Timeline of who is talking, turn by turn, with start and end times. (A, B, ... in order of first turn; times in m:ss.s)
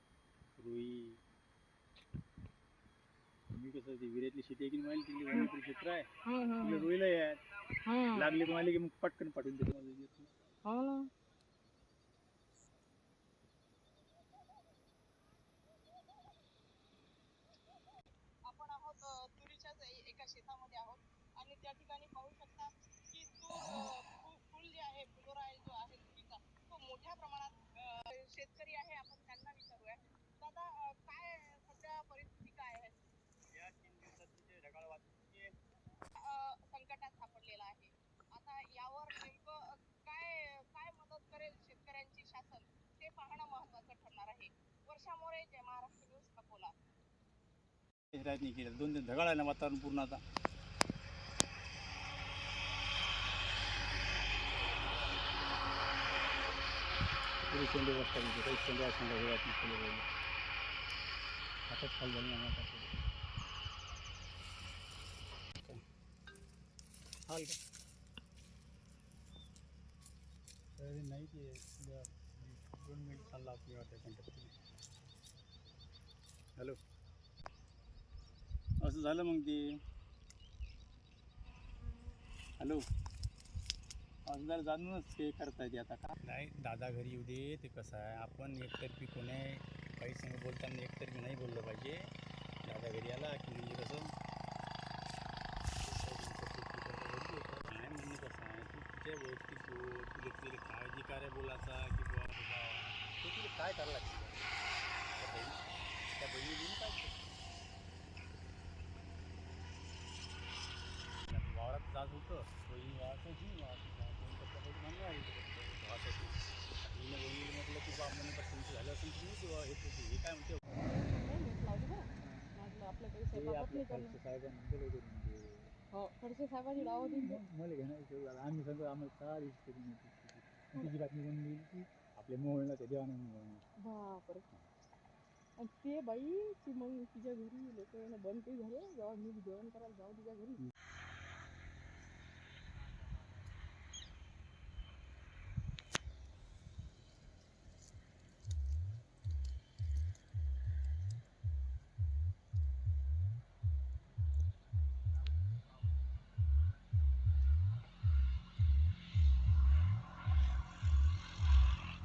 0:00.6-0:01.2 A
0:03.5-0:06.1 A
0:06.2-0:06.9 B
0:06.6-0:07.4 A
0:07.8-0:08.4 B
0:08.1-0:10.3 A
0:10.6-0:11.1 B
0:18.5-0:33.0 C
0:33.5-0:35.5 A
0:36.2-0:46.7 C
0:48.1-0:50.2 A
0:57.5-1:00.0 A
1:01.7-1:03.0 A
1:07.3-1:07.6 A
1:10.8-1:14.5 A
1:18.8-1:19.6 A
1:24.3-1:32.0 A
1:32.6-1:34.1 A
1:35.8-1:44.5 A
1:45.2-1:45.6 A
1:46.2-1:47.2 A
1:51.3-2:00.7 A
2:00.8-2:04.2 B
2:02.2-2:02.5 A
2:03.3-2:05.7 A
2:05.9-2:07.4 B
2:06.8-2:13.6 A
2:13.8-2:14.5 B
2:15.6-2:20.6 B